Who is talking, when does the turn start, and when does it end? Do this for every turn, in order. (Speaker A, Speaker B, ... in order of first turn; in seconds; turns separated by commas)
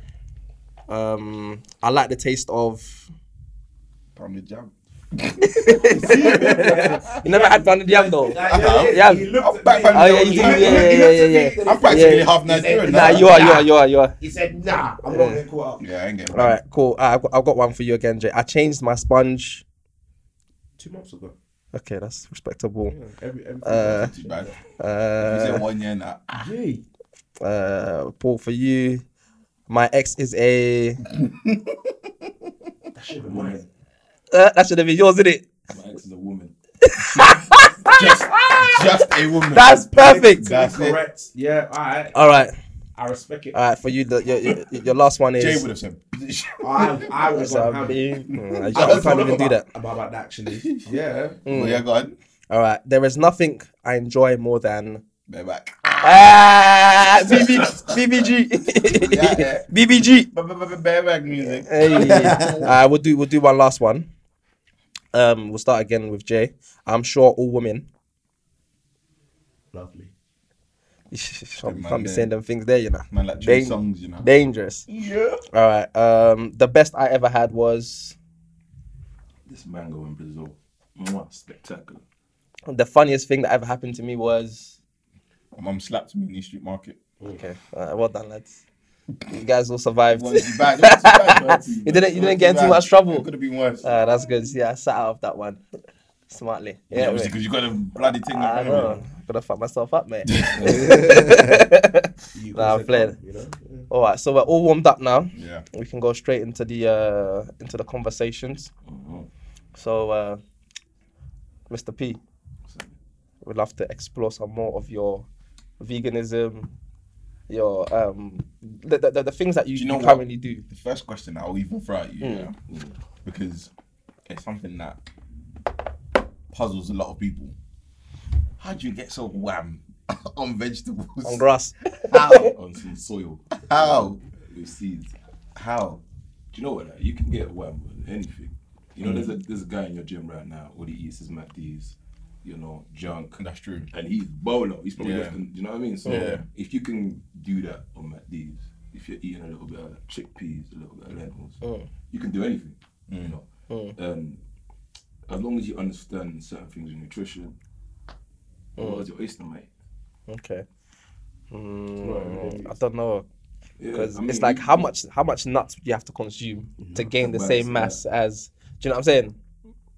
Speaker A: 0.9-3.1, Speaker B: 4.2-7.1, Speaker A: 5.4-9.3, Speaker C: 5.8-15.8, Speaker B: 8.4-13.6, Speaker A: 9.9-12.3, Speaker A: 12.8-14.1, Speaker A: 15.1-15.4, Speaker B: 15.8-16.6, Speaker A: 16.3-19.6, Speaker C: 20.8-21.4, Speaker A: 21.7-23.0, Speaker C: 22.9-24.6, Speaker A: 23.6-24.1, Speaker B: 23.7-24.6, Speaker A: 24.8-25.6, Speaker B: 25.2-26.5, Speaker C: 26.3-26.9, Speaker A: 27.4-29.0, Speaker A: 29.7-31.0, Speaker B: 31.1-32.3, Speaker C: 33.0-33.6, Speaker D: 33.2-33.7, Speaker A: 34.3-35.5, Speaker D: 35.7-36.5, Speaker A: 36.8-38.8, Speaker B: 37.9-41.0, Speaker A: 39.5-40.5, Speaker C: 40.0-42.2, Speaker A: 42.1-42.5, Speaker C: 43.0-43.6, Speaker A: 43.5-45.7, Speaker B: 45.4-47.3, Speaker C: 46.6-48.0, Speaker A: 47.3-49.7, Speaker B: 48.2-49.5, Speaker C: 48.7-51.4, Speaker B: 50.5-50.9, Speaker A: 51.5-51.8, Speaker B: 51.5-52.1, Speaker A: 52.5-55.0, Speaker B: 55.3-56.4, Speaker A: 56.0-60.3, Speaker B: 57.2-58.3, Speaker B: 58.8-59.7, Speaker B: 60.3-62.7, Speaker A: 61.6-64.1, Speaker A: 65.1-67.9, Speaker C: 69.7-70.1, Speaker A: 71.1-74.8, Speaker B: 71.6-72.3, Speaker B: 73.1-74.3, Speaker B: 74.9-75.4, Speaker A: 75.5-78.2, Speaker D: 79.5-82.0, Speaker A: 82.7-84.8, Speaker B: 85.6-87.0, Speaker A: 87.3-88.6, Speaker A: 89.3-93.3, Speaker B: 90.1-93.9, Speaker D: 91.1-92.2, Speaker A: 93.8-95.6, Speaker A: 96.3-97.3, Speaker B: 96.9-99.0, Speaker A: 98.3-103.2, Speaker B: 100.3-101.6, Speaker D: 100.6-101.0, Speaker C: 102.3-103.9, Speaker A: 103.9-108.7, Speaker B: 105.3-105.7, Speaker D: 108.9-109.3, Speaker A: 109.8-110.4, Speaker A: 111.7-112.2, Speaker D: 112.7-112.9, Speaker A: 113.4-115.3, Speaker A: 115.8-116.7, Speaker A: 117.5-120.6, Speaker B: 119.8-122.5, Speaker A: 122.2-122.5, Speaker D: 122.7-123.0, Speaker B: 123.2-123.7, Speaker B: 124.3-125.0, Speaker B: 126.5-127.5, Speaker B: 128.6-131.4, Speaker A: 131.2-132.5, Speaker B: 132.0-132.6, Speaker D: 132.3-135.1, Speaker B: 133.6-134.2, Speaker B: 135.6-136.0, Speaker D: 136.5-143.4, Speaker B: 139.0-139.3, Speaker B: 143.4-143.9, Speaker D: 143.9-153.4, Speaker B: 145.0-145.4, Speaker A: 146.1-146.4, Speaker B: 146.1-146.4, Speaker A: 151.6-151.9, Speaker B: 153.1-153.3, Speaker A: 153.7-153.9, Speaker D: 154.0-154.4, Speaker D: 155.3-157.6, Speaker A: 158.8-159.1, Speaker D: 158.8-159.7, Speaker A: 160.3-160.7, Speaker A: 161.5-163.2, Speaker C: 162.0-162.8, Speaker D: 163.8-164.9, Speaker A: 163.9-169.4, Speaker C: 166.8-167.1, Speaker D: 167.1-168.0